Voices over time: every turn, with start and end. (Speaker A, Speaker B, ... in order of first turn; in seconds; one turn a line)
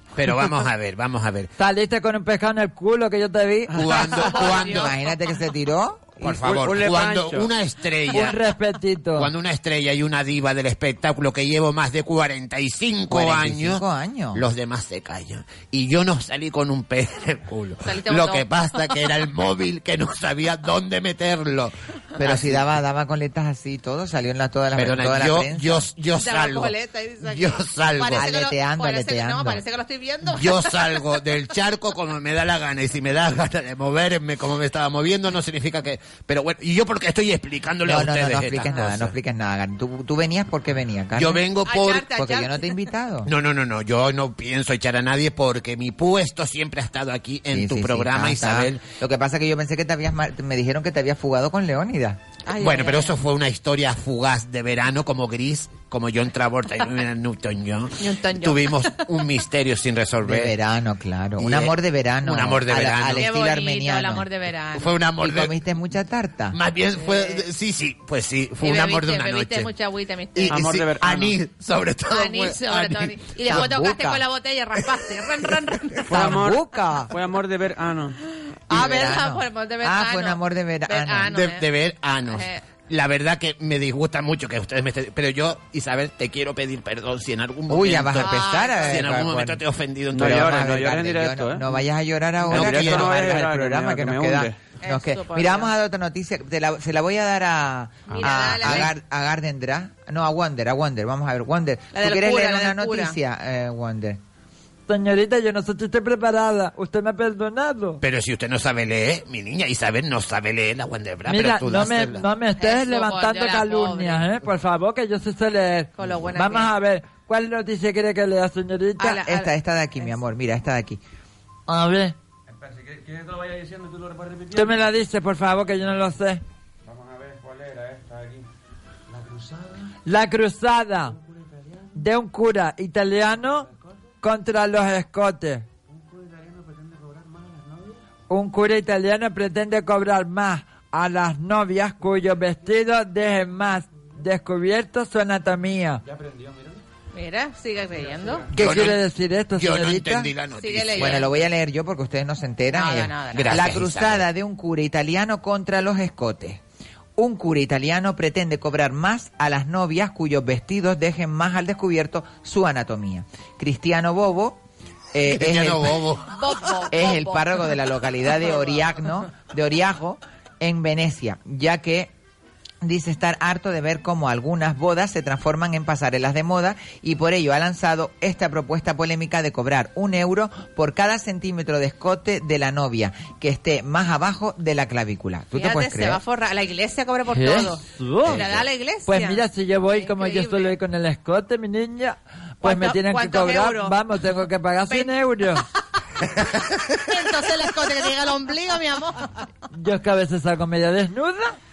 Speaker A: 0.2-1.5
Speaker B: 1.6-3.8
Speaker A: 3.7-5.0
Speaker C: 4.0-4.9
Speaker D: 4.5-6.3
Speaker A: 6.2-8.4
Speaker E: 6.3-7.5
Speaker B: 8.1-9.3
Speaker A: 9.1-13.8
Speaker D: 13.1-14.4
Speaker A: 14.3-22.6
Speaker C: 17.8-18.9
Speaker D: 22.2-25.9
Speaker A: 24.8-28.2
Speaker C: 26.2-31.0
Speaker D: 28.1-29.6
Speaker A: 30.3-39.1
Speaker D: 37.8-41.5
Speaker A: 41.2-42.1
Speaker C: 41.6-42.7
Speaker D: 42.0-43.3
Speaker A: 43.3-48.8
Speaker D: 47.5-52.2
Speaker C: 52.5-53.2
Speaker A: 52.5-60.5
Speaker C: 58.0-59.0
Speaker D: 60.2-64.3
Speaker A: 61.4-63.3
Speaker C: 63.2-65.0
Speaker A: 64.7-65.5
Speaker D: 65.2-66.6
Speaker A: 66.5-69.7
Speaker C: 67.0-67.5
Speaker C: 68.6-70.6
Speaker A: 70.3-73.7
Speaker E: 70.5-71.4
Speaker C: 72.1-76.1
Speaker D: 73.5-74.2
Speaker E: 76.1-78.2
Speaker D: 76.1-77.1
Speaker D: 78.7-81.3
Speaker C: 78.7-81.7
Speaker A: 81.3-90.5
Speaker C: 82.3-82.6
Speaker D: 87.7-89.6
Speaker C: 88.2-89.1
Speaker E: 90.1-91.7
Speaker D: 90.1-104.2
Speaker E: 92.5-94.6
Speaker A: 92.5-93.2
Speaker C: 94.8-95.7
Speaker C: 98.1-98.9
Speaker C: 101.9-103.2
Speaker B: 104.9-108.0
Speaker A: 108.0-112.3
Speaker B: 111.3-119.2
Speaker C: 112.6-114.3
Speaker C: 116.0-116.7
Speaker C: 119.0-119.5
Speaker D: 119.0-121.0
Speaker B: 121.7-122.2
Speaker E: 122.5-124.9
Speaker B: 124.5-126.4
Speaker E: 126.9-128.5
Speaker E: 129.1-129.7
Speaker B: 130.1-131.2
Speaker B: 131.9-133.7
Speaker B: 134.2-135.7
Speaker E: 135.9-138.0
Speaker B: 138.3-146.0
Speaker E: 146.1-146.8
Speaker C: 147.1-148.4
Speaker A: 148.6-149.0
Speaker B: 148.6-150.3
Speaker A: 149.5-151.3
Speaker C: 150.6-151.3
Speaker D: 151.0-156.6
Speaker C: 152.7-153.7
Speaker A: 153.3-154.2
Speaker D: 157.2-164.6
Speaker D: 165.1-166.0
Speaker A: 165.3-166.3
Speaker C: 166.3-167.6
Speaker D: 166.9-172.1
Speaker D: 172.8-186.2
Speaker C: 185.6-190.8
Speaker B: 187.3-188.4
Speaker A: 188.2-188.6
Speaker B: 189.1-195.7
Speaker C: 192.6-194.0
Speaker C: 194.9-195.1
Speaker A: 196.3-196.9
Speaker C: 197.0-199.3
Speaker B: 199.8-201.6